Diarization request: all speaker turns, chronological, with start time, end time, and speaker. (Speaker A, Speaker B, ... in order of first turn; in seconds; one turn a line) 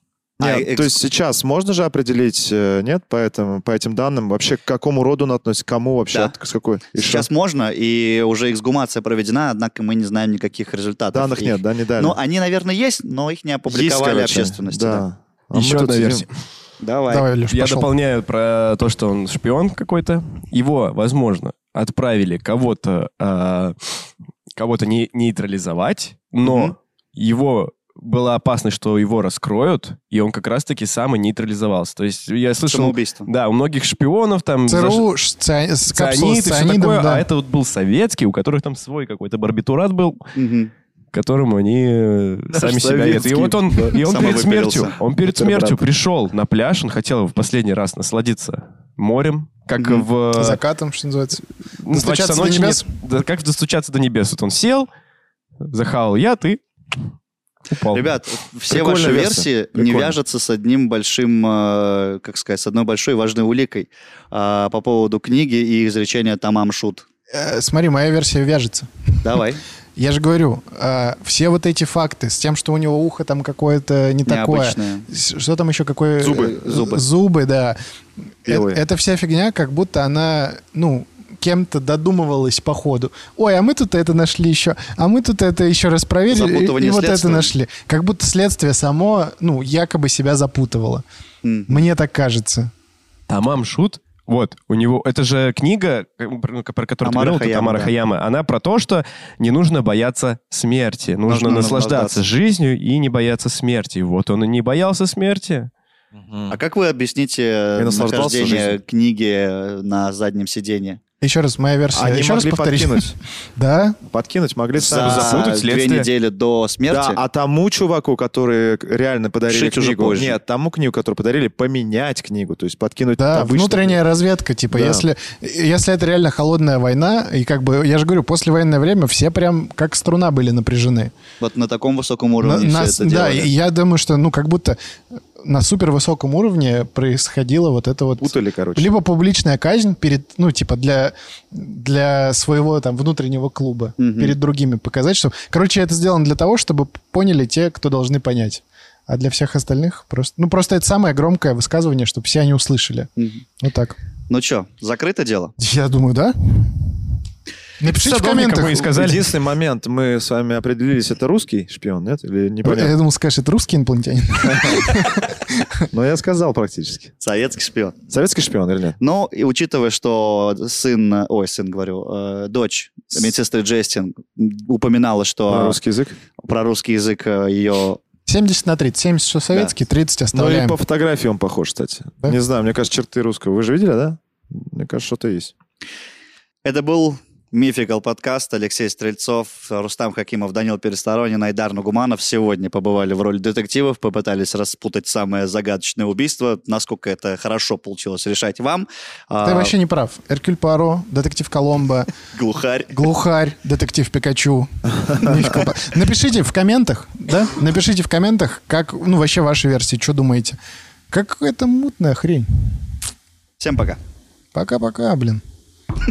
Speaker A: 0.4-7.3
Speaker B: 0.4-1.0
Speaker B: 7.0-15.1
Speaker A: 11.1-12.2
Speaker A: 13.7-16.2
Speaker C: 15.5-16.3
Speaker B: 16.8-17.3
Speaker D: 17.1-17.9
Speaker C: 17.5-23.9
Speaker C: 24.5-35.1
Speaker B: 26.4-26.8
Speaker B: 32.7-33.3
Speaker D: 34.7-37.2
Speaker C: 35.9-40.3
Speaker B: 40.4-40.7
Speaker C: 41.1-50.6
Speaker A: 42.5-44.4
Speaker B: 44.0-45.0
Speaker A: 45.3-45.8
Speaker B: 49.8-50.1
Speaker D: 50.4-52.8
Speaker C: 51.8-54.9
Speaker C: 55.6-56.6
Speaker C: 57.7-58.1
Speaker B: 57.9-67.0
Speaker A: 58.7-60.2
Speaker D: 67.3-69.3
Speaker B: 69.2-69.6
Speaker D: 70.0-77.8
Speaker B: 74.3-75.1
Speaker B: 76.2-77.0
Speaker A: 76.2-76.5
Speaker D: 78.4-91.0
Speaker A: 78.5-78.8
Speaker B: 86.3-87.5
Speaker B: 91.4-91.8
Speaker D: 91.7-92.7
Speaker C: 93.3-105.7
Speaker B: 97.0-97.9
Speaker B: 101.3-102.2
Speaker A: 106.1-106.6
Speaker B: 106.5-111.0
Speaker A: 107.8-108.8
Speaker D: 111.2-114.0
Speaker A: 111.9-113.2
Speaker A: 114.1-115.6
Speaker B: 114.8-117.2
Speaker C: 114.9-116.1
Speaker A: 116.9-124.0
Speaker B: 119.5-120.4
Speaker D: 123.2-131.1
Speaker A: 124.7-125.1
Speaker B: 131.4-133.5
Speaker D: 132.4-134.8
Speaker D: 135.4-154.0
Speaker A: 138.2-138.9
Speaker B: 144.0-144.4
Speaker B: 153.2-153.4
Speaker B: 154.3-155.5
Speaker D: 155.6-156.9
Speaker D: 157.8-159.2
Speaker C: 157.8-159.3
Speaker A: 158.9-162.9
Speaker D: 162.6-165.7
Speaker A: 164.4-164.9
Speaker A: 165.9-167.1
Speaker B: 167.2-168.0
Speaker A: 168.1-169.0
Speaker B: 169.0-175.8
Speaker A: 175.5-176.2
Speaker B: 176.4-178.0
Speaker D: 178.3-180.8
Speaker A: 180.3-185.5
Speaker B: 186.6-199.7
Speaker D: 199.4-202.1
Speaker B: 202.3-202.9
Speaker D: 202.9-210.6
Speaker D: 211.1-212.8
Speaker B: 213.6-214.0
Speaker D: 214.5-215.4